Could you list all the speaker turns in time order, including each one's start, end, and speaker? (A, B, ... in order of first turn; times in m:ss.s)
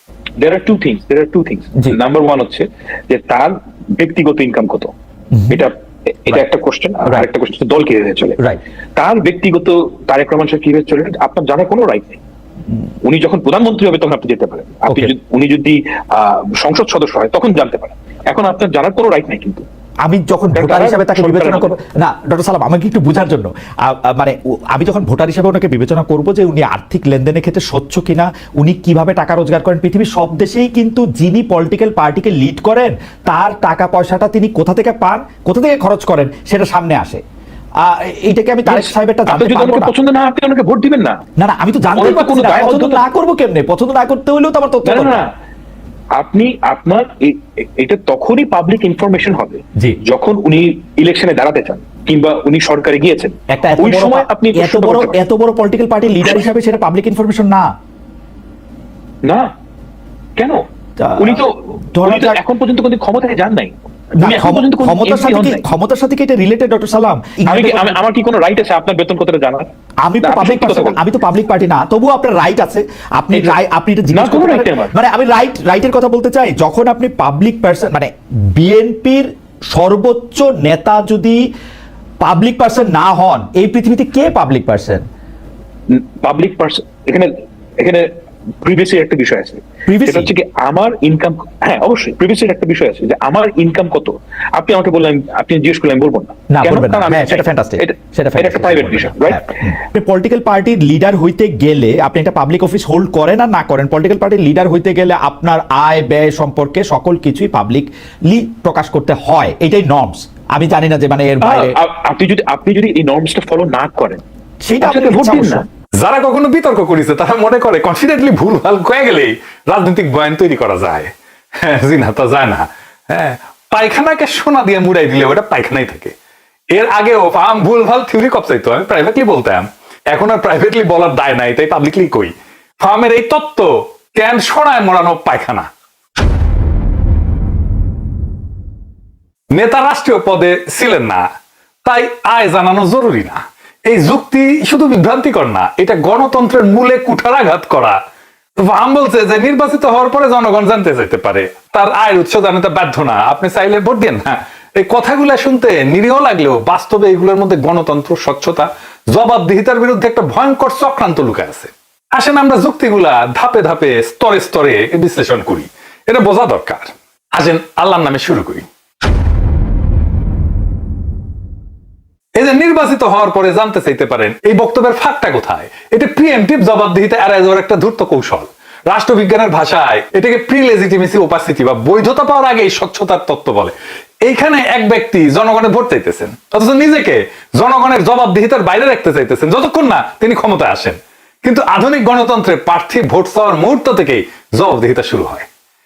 0:00.4-0:04.9 A
0:05.3-0:05.6 B
0:05.5-0:08.4 A
0:09.0-0:12.2 A
0:13.0-0:19.6 A
0:20.0-0:37.2 B
0:20.6-0:21.7 A
0:37.8-0:39.9 B
0:38.7-0:41.2 A
0:41.4-0:45.2 B
0:42.0-0:43.0 A
0:44.8-0:45.3 A
0:46.2-0:55.2 A
0:53.5-0:57.7 B
1:00.4-1:00.6 A
1:01.0-1:02.4 B
1:01.2-1:05.6 A
1:04.2-1:08.0 B
1:07.5-1:09.7 A
1:10.0-1:21.4 B
1:10.2-1:11.0 A
1:13.3-1:13.6 A
1:14.1-1:14.9 A
1:22.2-1:25.0 B
1:25.9-1:28.1 A
1:28.6-1:39.5 A
1:29.9-1:30.3 B
1:36.5-1:51.8 B
1:51.4-1:54.2 A
1:54.6-1:55.6 B
1:54.8-1:55.7 A
1:56.0-2:06.1 C
2:06.7-2:15.7 C
2:19.5-2:21.2 C
2:21.8-2:28.0 C
2:28.6-2:48.7 C
2:52.4-3:15.5 C